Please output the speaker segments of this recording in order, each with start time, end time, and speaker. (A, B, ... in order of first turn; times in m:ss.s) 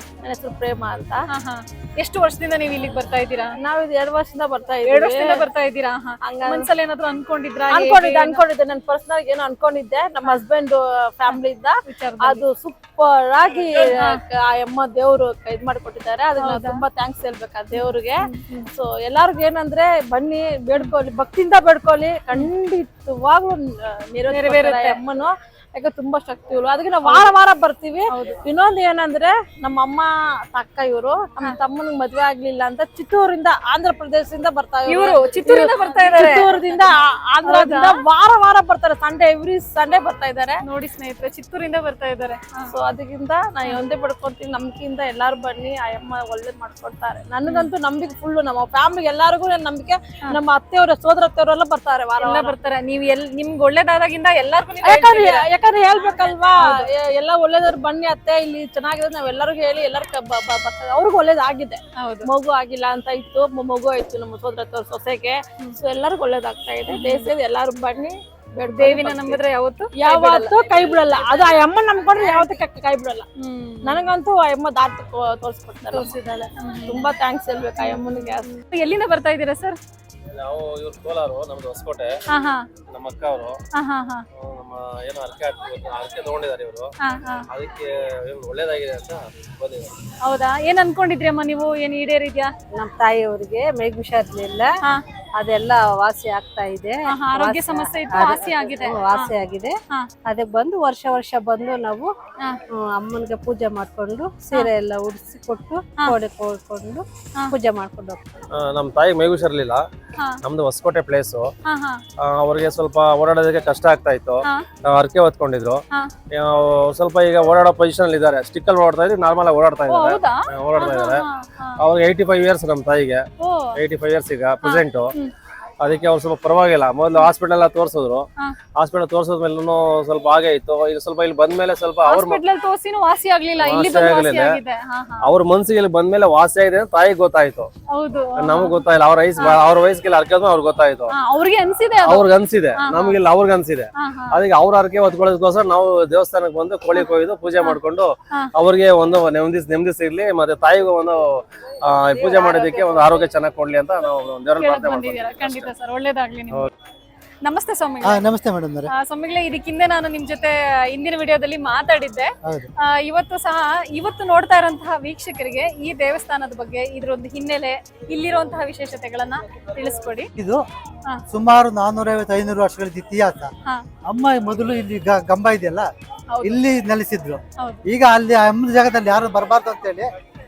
0:00.2-0:01.2 A
0:01.3-0:03.5 B
0:03.6-0:05.5 A
0:04.8-0:08.4 B
0:06.2-0:06.7 A
0:07.7-0:40.6 A
0:11.3-0:12.4 B
0:13.9-0:14.2 B
0:16.4-0:16.8 B
0:17.7-0:18.6 B
0:24.3-0:25.0 B
0:27.0-0:27.3 B
0:34.9-0:36.9 B
0:37.4-0:38.0 B
0:40.6-0:42.7 B
0:42.7-0:52.6 A
0:52.2-0:56.8 B
0:54.8-1:09.4 A
1:02.0-1:02.2 B
1:06.9-1:07.3 B
1:08.8-1:11.5 B
1:10.0-1:13.2 A
1:13.4-1:14.0 B
1:13.8-1:16.2 A
1:15.9-1:17.1 B
1:16.8-1:18.5 A
1:17.8-1:19.8 B
1:20.4-1:22.1 C
1:22.3-1:22.6 B
1:22.9-1:23.6 C
1:23.7-1:24.2 B
1:24.4-1:26.9 C
1:27.0-1:27.5 B
1:27.5-1:29.9 C
1:30.2-1:32.5 B
1:32.7-1:34.7 D
1:35.4-1:42.1 D
1:37.0-1:39.3 B
1:42.7-1:48.2 D
1:48.5-1:49.8 C
1:50.4-1:51.5 C
1:51.6-1:52.0 B
1:52.2-2:01.2 C
1:59.9-2:01.8 B
2:01.8-2:05.1 C
2:03.4-2:03.8 B
2:04.6-2:05.3 B
2:05.8-2:12.4 C
2:12.0-2:15.3 B
2:13.6-2:14.6 C
2:15.2-2:17.7 C
2:17.9-2:18.8 B
2:18.4-2:21.1 C
2:21.1-2:23.2 B
2:22.0-2:35.7 C
2:24.0-2:24.4 B
2:26.9-2:27.8 B
2:34.6-2:36.7 B
2:37.4-2:38.2 B
2:38.0-2:38.9 E
2:38.9-2:42.3 B
2:42.4-2:42.7 E
2:42.8-2:50.3 B
2:50.4-2:50.6 E
2:51.3-2:53.5 E
2:54.1-2:55.8 E
2:56.3-2:56.6 B
2:56.4-3:00.1 E
2:57.6-2:57.8 B